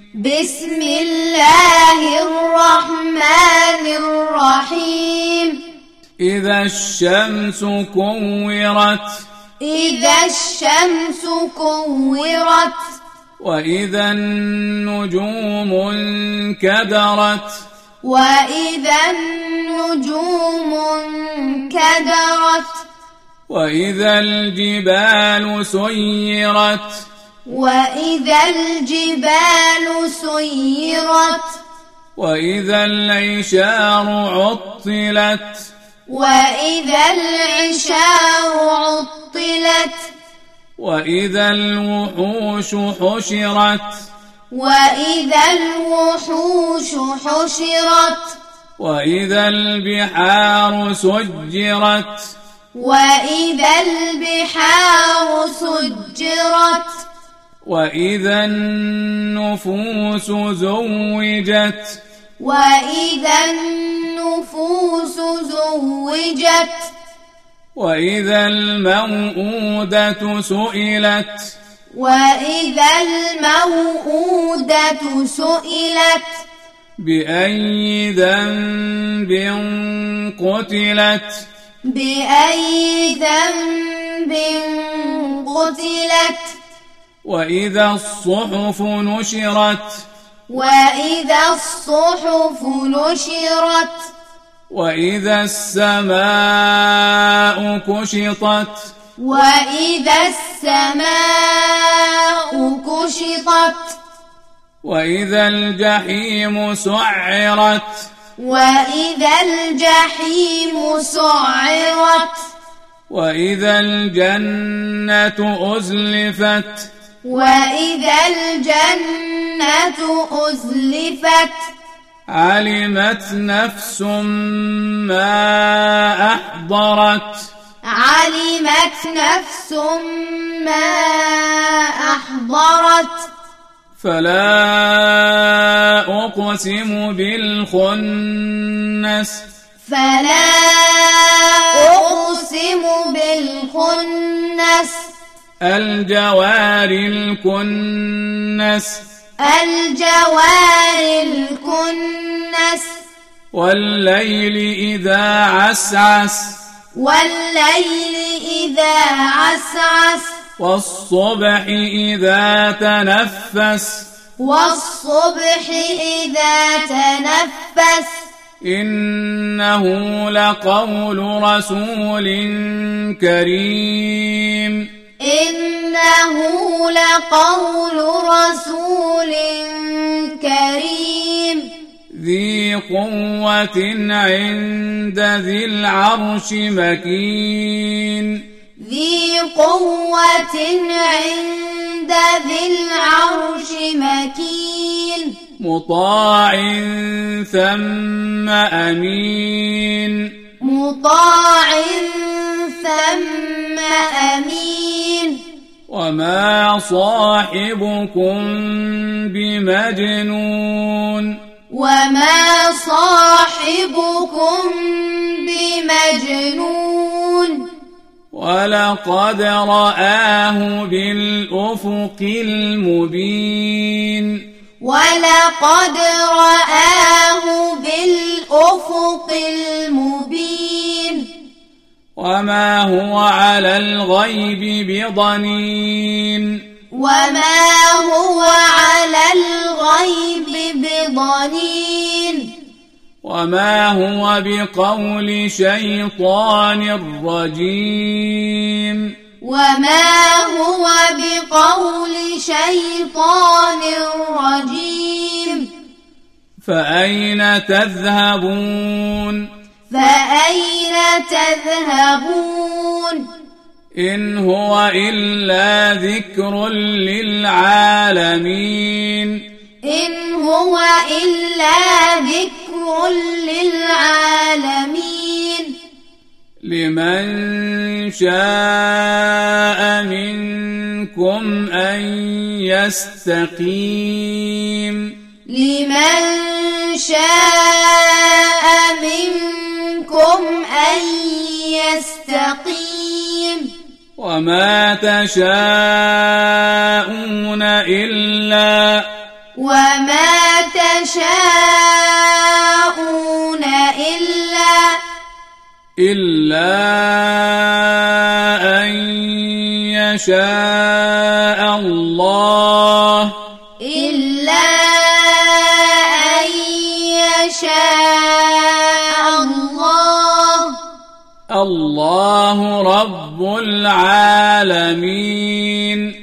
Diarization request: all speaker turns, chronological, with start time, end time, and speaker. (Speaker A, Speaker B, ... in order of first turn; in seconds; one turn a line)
Speaker A: 0.1-5.6
Speaker B: 6.2-9.2
Speaker A: 9.6-12.9
Speaker B: 13.4-17.6
Speaker A: 18.0-22.8
Speaker B: 23.5-27.1
Speaker A: 27.4-31.6
Speaker B: 32.1-35.7
Speaker A: 36.1-40.1
Speaker B: 40.8-44.0
Speaker A: 44.5-48.4
Speaker B: 48.8-52.3
Speaker A: 52.7-57.0
Speaker B: 57.6-62.0
Speaker A: 62.4-66.9
Speaker B: 67.8-71.5
Speaker A: 71.9-76.4
Speaker B: 77.0-81.5
Speaker A: 81.8-86.5
Speaker B: 87.2-90.1
Speaker A: 90.5-94.1
Speaker B: 94.7-98.9
Speaker A: 99.2-104.0
Speaker B: 104.8-108.1
Speaker A: 108.4-112.4
Speaker B: 113.1-116.9
Speaker A: 117.2-121.7
Speaker B: 122.3-127.5
Speaker A: 127.8-133.3
Speaker B: 134.0-139.4
Speaker A: 139.8-145.1
Speaker B: 145.6-149.0
Speaker A: 149.4-153.0
Speaker B: 153.5-156.6
Speaker A: 156.9-160.3
Speaker B: 160.6-164.1
Speaker A: 164.4-168.3
Speaker B: 168.6-174.9
Speaker A: 175.2-181.7
Speaker B: 182.1-188.4
Speaker A: 188.8-195.3
Speaker B: 195.6-200.3
Speaker A: 200.6-205.4
Speaker B: 205.9-211.4
Speaker A: 211.7-217.7
Speaker B: 218.3-224.4
Speaker A: 224.8-231.3
Speaker B: 232.2-236.6
Speaker A: 236.9-242.5
Speaker B: 243.2-249.1
Speaker A: 249.4-255.7
Speaker B: 256.6-259.5
Speaker A: 259.9-263.3
Speaker B: 263.9-269.4
Speaker A: 269.8-275.8
Speaker B: 276.6-285.1
Speaker A: 285.5-293.7
Speaker B: 294.2-299.1
Speaker A: 299.6-305.0
Speaker B: 306.0-313.3
Speaker A: 313.8-320.8
Speaker B: 321.5-326.1